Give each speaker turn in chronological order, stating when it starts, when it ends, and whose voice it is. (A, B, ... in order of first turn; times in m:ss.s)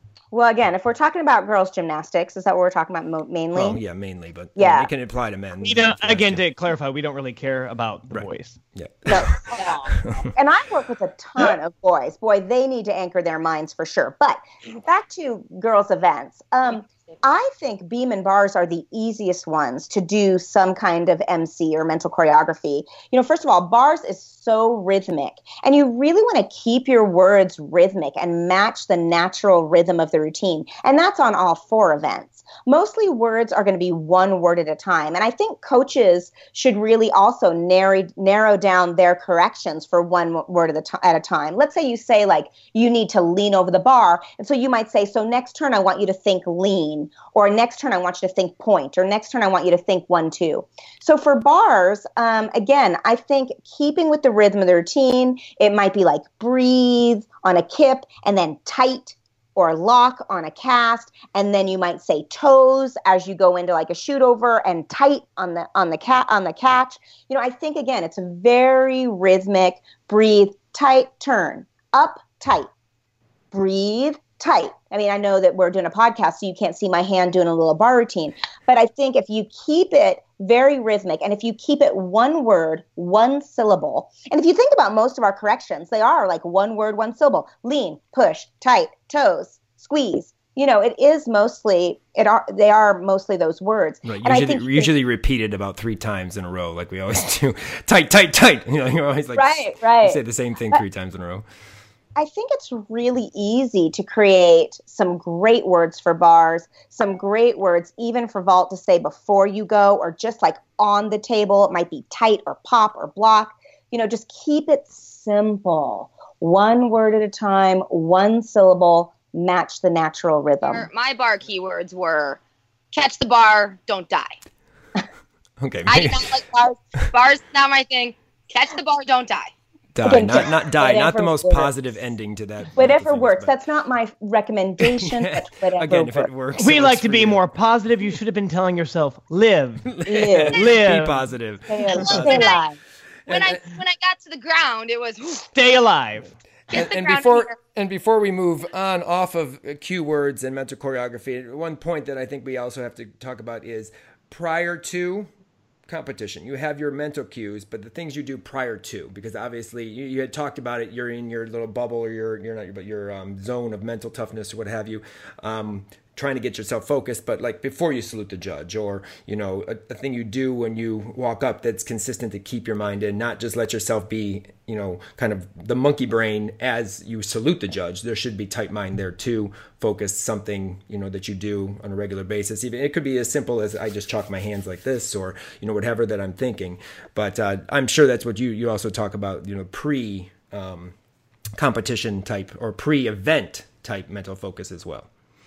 0:00.3-0:03.8 A
0:03.5-0:06.4 B
0:04.6-0:04.9 A
0:05.6-0:08.6 C
0:08.1-0:10.2 B
0:09.1-1:12.7 A
1:13.5-1:34.9 A
1:34.0-1:41.4 B
1:39.4-1:40.2 A
1:42.2-2:00.9 A
2:00.6-2:02.4 D
2:02.9-2:04.4 D
2:05.6-2:06.3 B
2:05.9-2:09.5 D
2:10.0-2:13.6 B
2:10.0-2:11.7 A
2:12.8-2:16.3 A
2:14.8-2:17.4 B
2:16.6-2:19.9 C
2:19.9-2:22.6 B
2:20.1-2:20.6 A
2:20.5-2:21.2 C
2:21.7-2:22.8 A
2:22.1-2:22.6 D
2:23.3-2:23.6 B
2:23.3-2:25.5 D
2:25.5-2:26.3 C
2:26.7-2:27.5 D
2:26.7-2:35.3 B
2:35.9-3:10.9 B
3:11.6-3:15.1 B